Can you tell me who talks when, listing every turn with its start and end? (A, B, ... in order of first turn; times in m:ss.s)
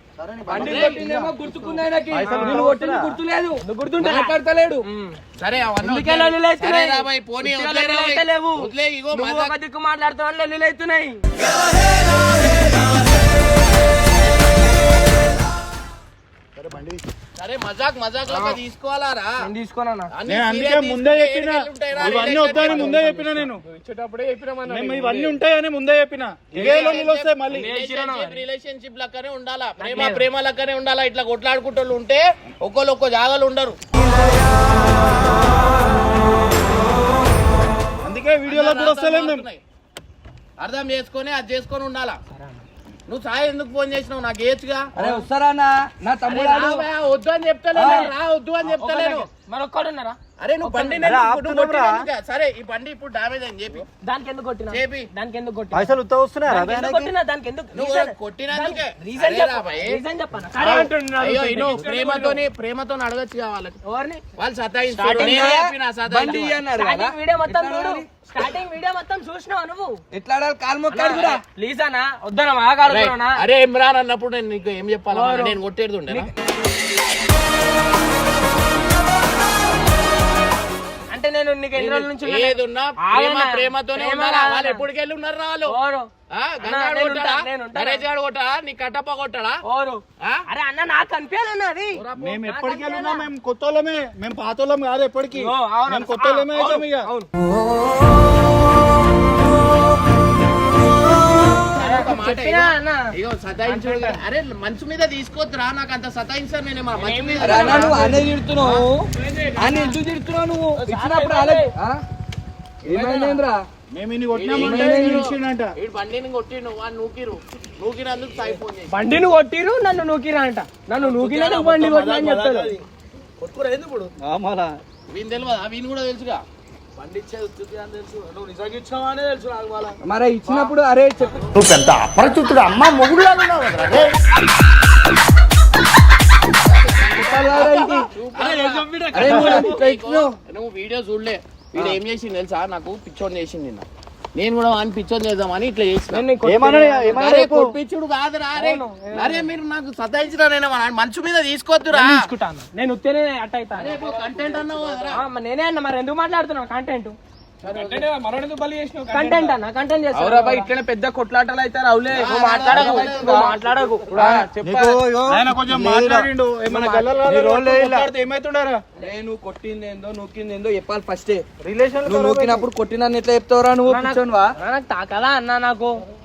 0:00.2-0:01.5 A
0:00.5-0:04.9 B
0:00.5-0:01.0 C
0:01.7-0:02.8 D
0:02.1-0:03.2 A
0:03.6-0:05.2 D
0:05.4-0:09.6 C
0:05.8-0:11.2 D
0:16.6-0:17.1 A
0:17.4-0:19.4 C
0:18.3-0:18.6 D
0:19.4-0:20.1 D
0:20.1-0:23.1 C
0:20.3-0:23.6 E
0:22.2-0:23.4 D
0:23.6-0:25.4 F
0:24.7-0:27.7 E
0:26.6-0:33.8 C
0:27.5-0:28.4 D
0:29.8-0:30.3 D
0:38.0-0:39.5 E
0:38.5-0:39.6 C
0:40.6-0:42.2 C
0:42.3-0:42.6 D
0:43.1-0:44.9 C
0:45.0-0:46.9 B
0:45.0-0:45.2 A
0:46.3-0:49.3 C
0:47.7-0:48.1 B
0:47.8-0:48.1 D
0:48.8-0:51.1 D
0:50.4-0:53.9 C
0:51.0-0:52.1 A
0:54.0-0:56.0 D
0:54.7-0:55.1 C
0:55.7-0:57.1 A
0:56.5-1:01.9 D
0:57.7-0:59.9 C
1:00.6-1:03.8 C
1:01.7-1:02.4 F
1:03.9-1:04.2 D
1:04.4-1:06.6 C
1:04.9-1:05.6 D
1:05.2-1:08.1 B
1:06.7-1:10.0 D
1:10.1-1:11.4 B
1:10.9-1:13.4 D
1:12.9-1:16.3 C
1:15.1-1:15.6 D
1:21.1-1:24.8 D
1:21.8-1:25.7 C
1:25.7-1:26.1 D
1:26.3-1:29.6 C
1:26.6-1:28.0 D
1:29.6-1:33.3 D
1:30.2-1:30.5 C
1:32.0-1:32.4 C
1:32.2-1:37.1 E
1:35.4-1:37.3 D
1:41.7-1:48.2 C
1:41.8-1:43.1 D
1:43.7-1:44.2 D
1:47.0-1:48.2 D
1:47.4-1:52.0 B
1:49.2-1:50.0 D
1:50.7-1:51.7 D
1:52.8-1:53.6 B
1:53.9-1:55.7 E
1:54.3-1:58.9 C
1:54.6-1:55.3 B
1:58.9-2:02.7 D
2:01.0-2:02.8 G
2:03.4-2:04.1 G
2:04.2-2:04.8 A
2:05.1-2:06.4 C
2:07.0-2:10.8 G
2:10.0-2:11.4 B
2:11.3-2:11.8 G
2:13.1-2:14.0 G
2:16.9-2:26.2 C
2:17.0-2:18.1 B
2:18.3-2:19.6 G
2:19.1-2:20.4 B
2:19.3-2:19.6 E
2:26.1-2:27.3 D
2:26.4-2:27.8 A
2:27.1-2:32.2 C
2:28.6-2:29.5 D
2:31.9-2:34.0 D
2:33.8-2:35.2 C
2:34.0-2:35.1 G
2:35.1-2:37.2 D
2:37.6-2:38.1 C
2:37.6-2:39.6 F
2:39.1-2:40.7 D
2:40.2-2:44.5 C
2:40.8-2:41.5 G
2:42.1-2:44.1 D
2:42.7-2:43.5 B
2:44.2-2:44.5 B
2:44.2-2:45.0 G
2:44.6-2:46.3 A
2:45.3-2:48.8 E
2:47.2-2:48.1 A
2:49.0-2:51.4 B
2:51.6-2:52.6 E
2:52.0-2:52.6 A
2:52.1-2:54.5 B
2:53.9-2:56.0 D